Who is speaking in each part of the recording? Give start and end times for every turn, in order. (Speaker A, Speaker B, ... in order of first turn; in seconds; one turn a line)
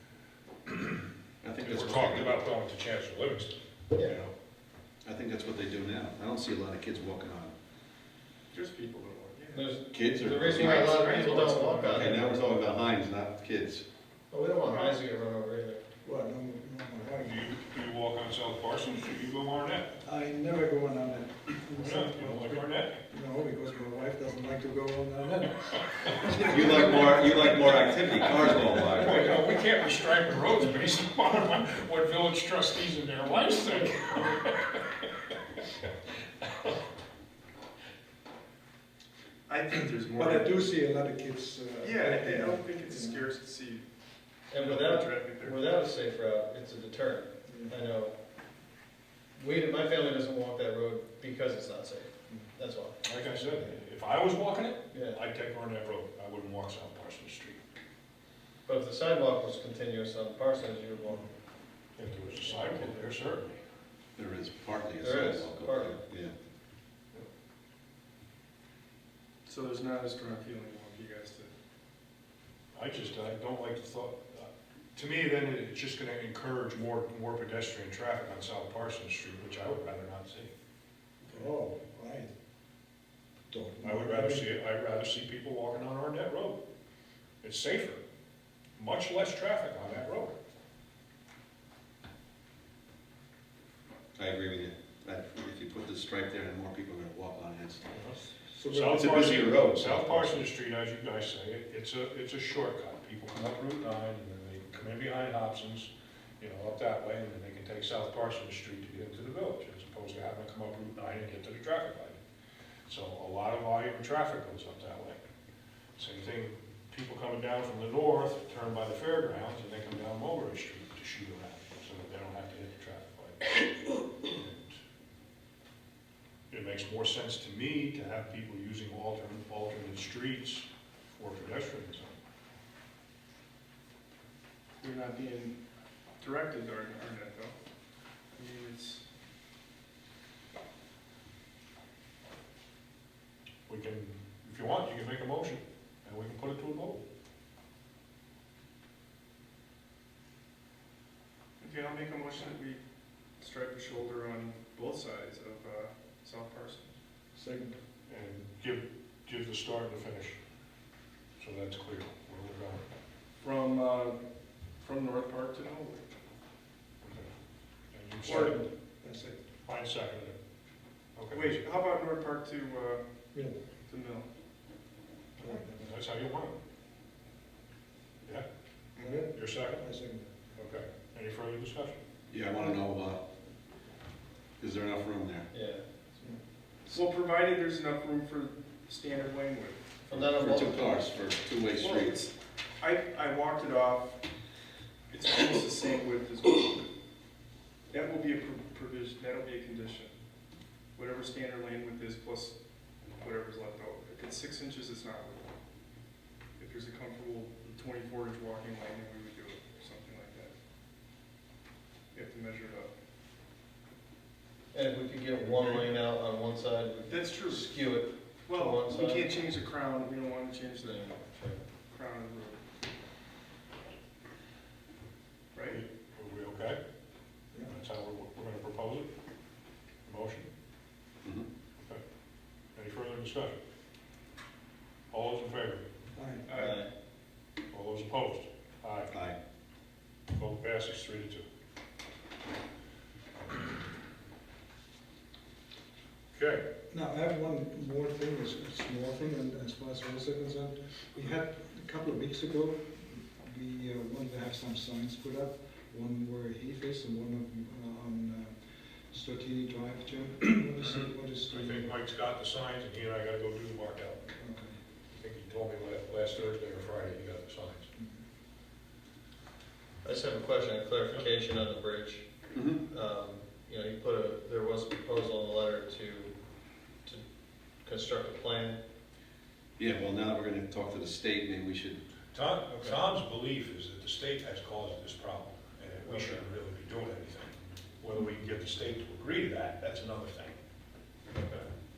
Speaker A: 0.7-1.0
Speaker B: 1.4-2.4
Speaker A: 1.6-4.3
Speaker B: 5.0-7.5
Speaker C: 8.5-9.7
Speaker D: 9.5-12.4
Speaker B: 9.9-11.1
Speaker C: 10.5-12.1
Speaker B: 11.8-13.8
Speaker D: 14.3-15.8
Speaker C: 14.6-15.0
Speaker E: 16.0-17.4
Speaker A: 17.2-19.9
Speaker E: 20.0-26.6
Speaker A: 21.8-23.0
Speaker A: 26.1-26.9
Speaker B: 26.4-29.3
Speaker A: 28.5-35.9
Speaker A: 36.4-36.7
Speaker C: 39.5-40.7
Speaker E: 40.1-43.2
Speaker C: 41.8-43.8
Speaker D: 44.5-48.1
Speaker C: 44.5-45.6
Speaker E: 47.5-47.8
Speaker D: 49.4-53.0
Speaker A: 53.0-57.6
Speaker D: 54.9-55.2
Speaker D: 58.6-61.3
Speaker A: 62.0-63.6
Speaker D: 62.5-62.9
Speaker B: 64.2-66.3
Speaker D: 65.0-66.0
Speaker C: 69.5-71.5
Speaker A: 72.7-80.5
Speaker E: 81.2-82.3
Speaker E: 83.5-84.5
Speaker A: 83.8-86.6
Speaker A: 87.4-88.0
Speaker A: 88.8-90.3
Speaker B: 94.2-97.8
Speaker A: 97.9-98.2
Speaker E: 98.5-99.4
Speaker A: 98.7-112.2
Speaker B: 98.9-100.4
Speaker A: 112.9-115.2
Speaker A: 116.0-124.8
Speaker A: 126.5-132.2
Speaker C: 134.8-135.6
Speaker C: 136.2-137.5
Speaker C: 138.3-139.0
Speaker A: 143.7-147.0
Speaker C: 151.6-152.8
Speaker C: 153.4-156.9
Speaker E: 157.3-157.8
Speaker A: 158.1-160.4
Speaker A: 161.4-162.8
Speaker C: 163.4-164.2
Speaker C: 164.8-166.2
Speaker A: 167.0-167.3
Speaker A: 167.9-168.6
Speaker C: 168.2-168.6
Speaker E: 168.2-169.4
Speaker A: 169.6-170.3
Speaker A: 171.2-171.5
Speaker C: 171.3-173.0
Speaker C: 173.9-174.2
Speaker E: 175.4-175.9
Speaker A: 175.8-176.5
Speaker C: 178.9-179.2
Speaker E: 179.0-180.3
Speaker A: 179.3-179.8
Speaker A: 180.6-182.0
Speaker B: 182.3-183.2
Speaker B: 184.6-185.5
Speaker D: 185.5-186.2
Speaker C: 186.9-189.8
Speaker D: 190.1-190.9
Speaker B: 190.1-192.1
Speaker C: 191.8-194.2
Speaker C: 195.1-196.8
Speaker C: 197.9-200.1
Speaker C: 200.9-202.6
Speaker C: 203.2-205.5
Speaker C: 206.6-210.5
Speaker C: 212.1-212.9
Speaker D: 214.7-219.3
Speaker C: 217.1-217.8
Speaker C: 218.4-221.2
Speaker D: 220.8-221.6
Speaker C: 221.9-222.6
Speaker C: 225.5-225.8
Speaker A: 225.7-226.8
Speaker A: 227.7-229.1
Speaker A: 230.0-230.5
Speaker A: 232.7-233.6
Speaker A: 235.1-235.8
Speaker E: 236.1-236.6
Speaker C: 236.5-236.8
Speaker D: 236.5-236.9
Speaker A: 237.7-239.1
Speaker B: 239.1-239.4
Speaker A: 240.3-241.4
Speaker A: 246.3-246.6
Speaker E: 246.9-258.6
Speaker E: 259.1-261.9
Speaker A: 260.9-264.3
Speaker E: 264.4-264.7
Speaker A: 265.1-267.8
Speaker D: 270.0-272.3
Speaker B: 272.5-272.8
Speaker D: 272.9-276.3
Speaker D: 277.8-278.8
Speaker B: 279.8-282.0
Speaker A: 282.3-290.6
Speaker D: 286.1-286.4
Speaker D: 291.3-291.7